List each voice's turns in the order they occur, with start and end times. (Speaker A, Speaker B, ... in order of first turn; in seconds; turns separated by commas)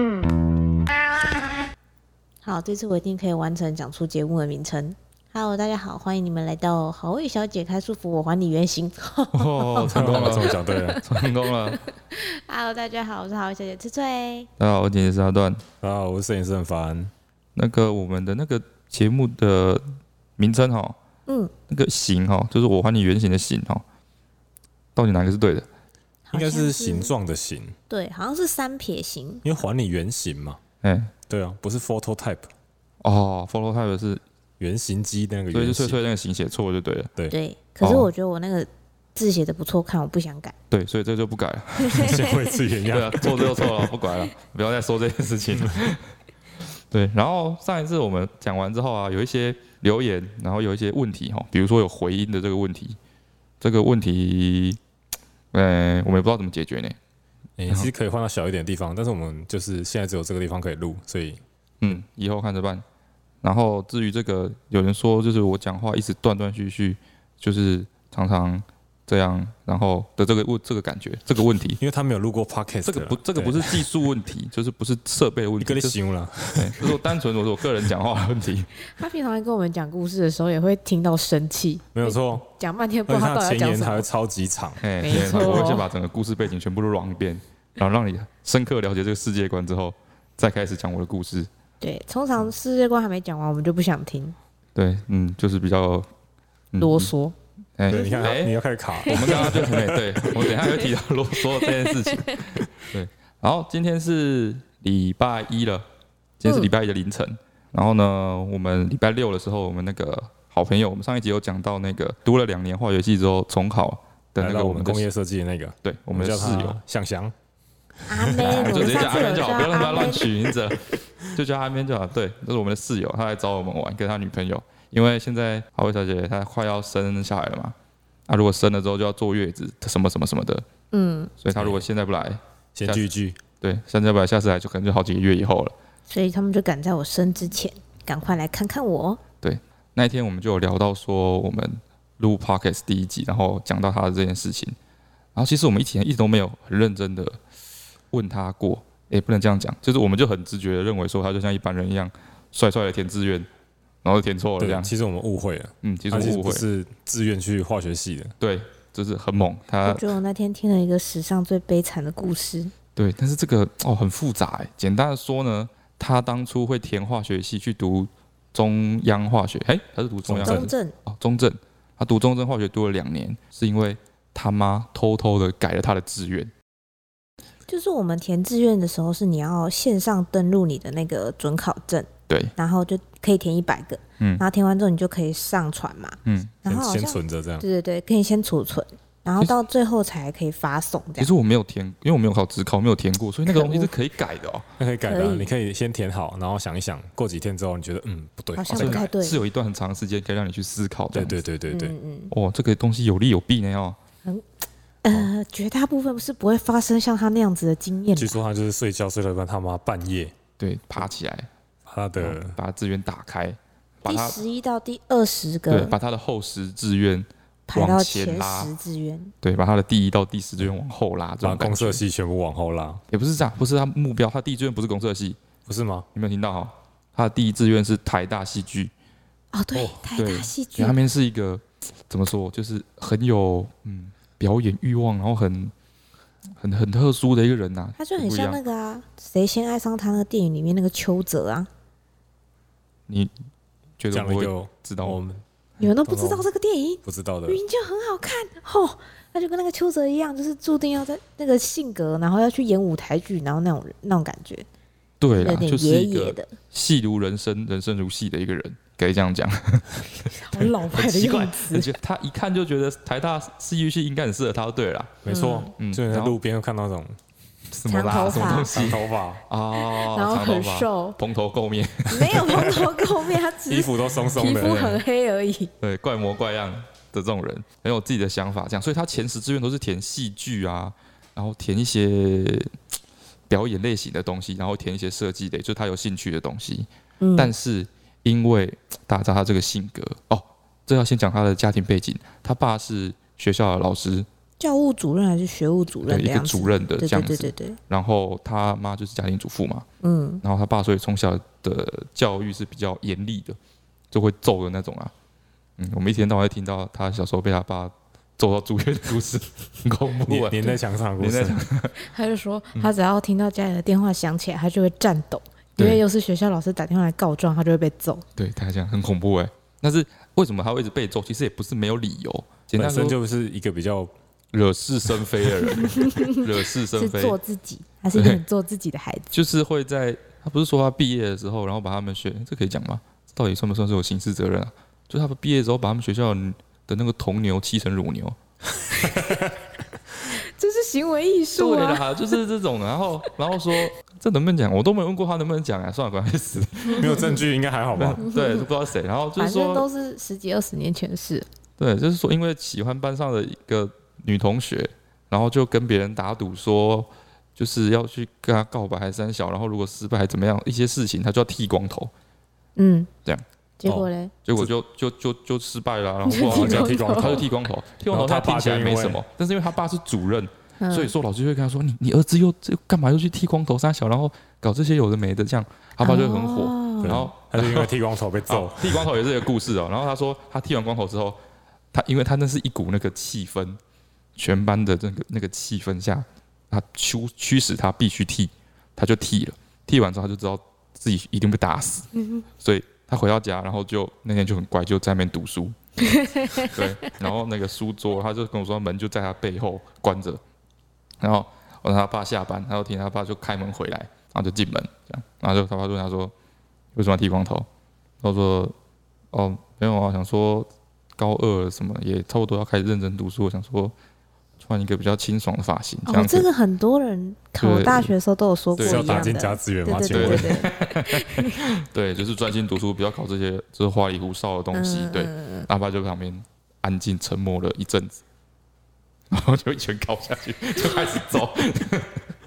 Speaker A: 2.4-11.0, Speaker B: 9.3-11.8, Speaker C: 9.8-11.0, Speaker A: 11.5-14.5, Speaker B: 14.6-15.6, Speaker C: 15.8-17.1, Speaker B: 17.6-19.8, Speaker B: 20.4-21.0, Speaker A: 21.3-21.5, Speaker B: 21.7-23.8, Speaker B: 25.0-25.7, Speaker A: 26.3-27.1, Speaker C: 26.3-27.8, Speaker A: 27.9-29.4, Speaker C: 29.4-30.6, Speaker B: 30.8-31.1, Speaker C: 31.3-32.5, Speaker B: 33.0-34.2, Speaker C: 34.6-36.0, Speaker B: 35.5-37.1, Speaker A: 37.3-40.5, Speaker B: 37.8-38.1, Speaker B: 40.7-46.0, Speaker A: 41.9-42.4, Speaker C: 41.9-44.0, Speaker B: 46.9-53.0, Speaker B: 53.6-54.8, Speaker B: 55.5-57.0, Speaker C: 57.6-61.4, Speaker B: 61.8-62.9, Speaker B: 63.4-71.8, Speaker C: 71.8-73.9, Speaker B: 72.8-76.0, Speaker C: 75.6-77.1, Speaker B: 76.5-78.7, Speaker A: 79.0-84.1, Speaker C: 81.9-82.5, Speaker C: 83.1-85.8, Speaker B: 84.8-91.5, Speaker A: 85.0-85.9, Speaker A: 91.8-94.3, Speaker B: 94.7-96.1, Speaker B: 96.7-97.1, Speaker A: 96.8-97.3, Speaker B: 97.8-105.8, Speaker C: 97.9-100.3, Speaker A: 99.1-99.5, Speaker A: 100.5-100.8, Speaker A: 101.5-102.6, Speaker B: 106.4-115.1, Speaker A: 106.4-106.7, Speaker C: 114.4-117.3, Speaker B: 115.8-116.8, Speaker C: 118.0-119.0, Speaker A: 118.1-120.3, Speaker B: 118.4-127.8, Speaker B: 128.3-130.6, Speaker A: 130.9-131.3, Speaker B: 131.4-133.1, Speaker C: 131.6-131.8, Speaker C: 132.8-133.4, Speaker B: 133.6-135.8, Speaker A: 136.1-139.2, Speaker B: 139.4-144.8, Speaker B: 145.3-147.4, Speaker B: 148.1-153.5, Speaker B: 154.0-154.9, Speaker C: 154.6-158.3, Speaker B: 155.8-156.6, Speaker B: 158.4-160.1, Speaker A: 159.8-162.7, Speaker B: 162.9-176.5, Speaker C: 170.2-170.7, Speaker A: 170.4-170.9, Speaker A: 177.7-191.3, Speaker B: 186.2-186.6, Speaker C: 186.7-187.6, Speaker B: 191.2-194.7, Speaker A: 193.5-193.9, Speaker C: 194.8-199.1, Speaker A: 195.1-195.5, Speaker A: 198.6-199.4, Speaker B: 198.7-201.4, Speaker C: 201.1-201.9, Speaker A: 201.7-202.3, Speaker B: 202.3-204.0, Speaker A: 205.0-208.4, Speaker C: 208.2-210.3, Speaker B: 210.6-211.5, Speaker C: 211.8-212.6, Speaker B: 212.2-214.4, Speaker A: 214.0-215.9, Speaker B: 215.7-218.7, Speaker A: 217.7-219.3, Speaker B: 219.4-222.0, Speaker C: 221.4-223.0, Speaker B: 223.1-225.4, Speaker C: 225.7-226.1, Speaker B: 226.1-228.9, Speaker A: 229.5-230.9, Speaker B: 230.1-235.7, Speaker B: 236.6-238.6, Speaker A: 238.0-241.7, Speaker B: 244.0-245.2, Speaker C: 244.1-245.4, Speaker A: 245.8-254.7, Speaker C: 246.0-246.5, Speaker C: 247.0-247.6, Speaker B: 255.2-265.2, Speaker A: 255.4-256.5, Speaker A: 260.3-261.9, Speaker C: 265.2-267.2, Speaker A: 265.3-265.7, Speaker B: 265.8-266.4, Speaker B: 267.7-273.0, Speaker A: 267.9-268.7, Speaker C: 268.3-269.4, Speaker A: 269.7-271.2, Speaker A: 272.1-275.7, Speaker C: 273.7-275.0, Speaker B: 275.8-282.8, Speaker B: 283.5-294.3, Speaker A: 287.2-287.5, Speaker A: 294.6-297.8, Speaker B: 296.1-299.9, Speaker A: 300.0-300.4, Speaker B: 300.4-303.6, Speaker B: 304.1-305.1, Speaker B: 305.8-311.9, Speaker C: 310.3-311.6, Speaker A: 312.0-318.2, Speaker B: 315.8-316.0, Speaker B: 318.4-323.2, Speaker C: 322.8-324.1, Speaker B: 324.5-327.4, Speaker A: 325.7-329.3, Speaker B: 328.1-328.4, Speaker B: 329.3-338.4, Speaker C: 339.0-339.5, Speaker A: 340.4-342.4, Speaker B: 341.6-347.3, Speaker C: 347.0-348.2, Speaker A: 347.0-347.4, Speaker B: 347.9-349.9, Speaker A: 348.2-348.7, Speaker A: 349.4-351.5, Speaker B: 351.8-362.1, Speaker A: 362.8-363.1, Speaker B: 363.2-377.9, Speaker A: 363.8-364.3, Speaker A: 366.2-367.5, Speaker C: 366.4-367.5, Speaker C: 368.1-369.2, Speaker A: 370.8-371.1, Speaker A: 376.0-377.2, Speaker C: 377.0-379.1, Speaker B: 378.5-381.4, Speaker B: 381.9-383.8, Speaker B: 384.4-395.8, Speaker A: 396.0-397.1, Speaker B: 396.6-400.4, Speaker B: 401.2-406.3, Speaker B: 407.0-407.7, Speaker B: 408.2-408.7, Speaker B: 409.3-413.9, Speaker B: 414.6-416.5, Speaker A: 416.1-421.6, Speaker B: 417.6-418.1, Speaker B: 418.8-419.4, Speaker C: 418.8-420.6, Speaker B: 420.0-428.2, Speaker A: 424.7-425.7, Speaker B: 429.3-432.3